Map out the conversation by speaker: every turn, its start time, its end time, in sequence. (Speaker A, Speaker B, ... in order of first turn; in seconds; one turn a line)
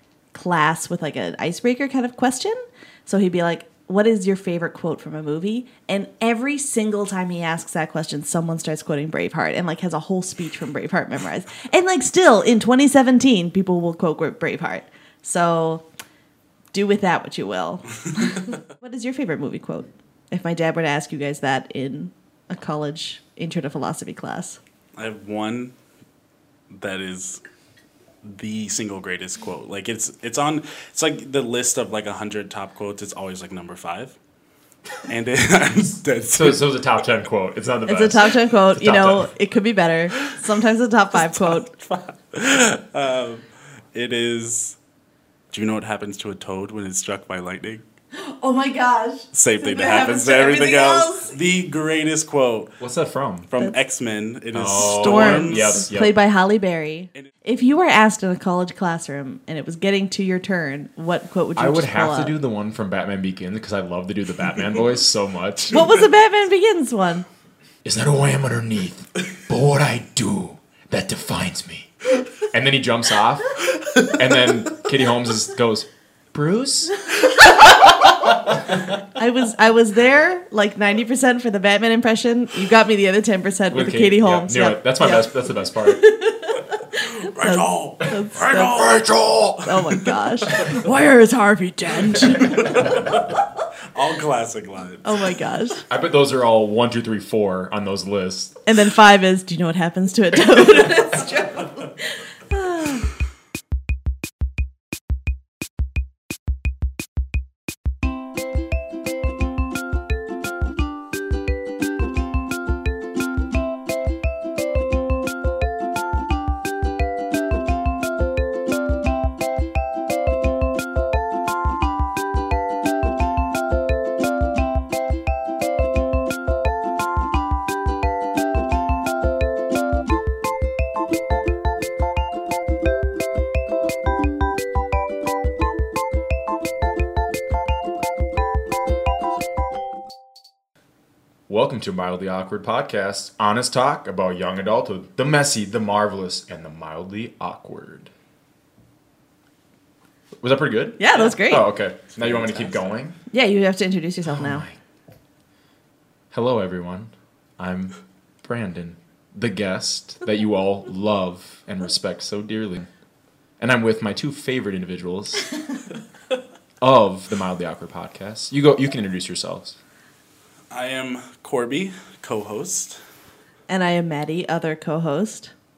Speaker A: 0.3-15.8
Speaker A: 16.7-24.6
Speaker B: 24.9-25.7
Speaker B: 26.7-27.4
Speaker B: 28.2-34.2
Speaker B: 35.0-36.7
Speaker C: 36.3-39.3
Speaker A: 37.9-41.7
Speaker B: 41.1-44.8
Speaker B: 45.5-47.8
Speaker A: 48.1-51.3
Speaker B: 49.3-52.8
Speaker C: 52.8-53.5
Speaker B: 53.5-55.9
Speaker C: 54.5-56.2
Speaker A: 54.8-62.3
Speaker C: 61.5-66.0
Speaker A: 65.7-67.2
Speaker C: 67.8-73.6
Speaker B: 73.8-74.1
Speaker C: 74.1-77.0
Speaker A: 79.1-88.9
Speaker C: 83.7-86.0
Speaker B: 87.0-90.8
Speaker A: 89.6-93.0
Speaker B: 92.4-93.3
Speaker B: 93.9-95.3
Speaker A: 95.0-95.8
Speaker C: 95.9-98.6
Speaker A: 98.7-103.1
Speaker C: 141.5-148.1
Speaker C: 150.4-153.2
Speaker A: 151.0-151.7
Speaker B: 152.1-152.9
Speaker A: 153.3-154.7
Speaker C: 154.2-154.8
Speaker C: 156.3-162.9
Speaker C: 163.6-165.5
Speaker C: 166.8-169.8
Speaker B: 170.7-173.0
Speaker A: 173.7-175.5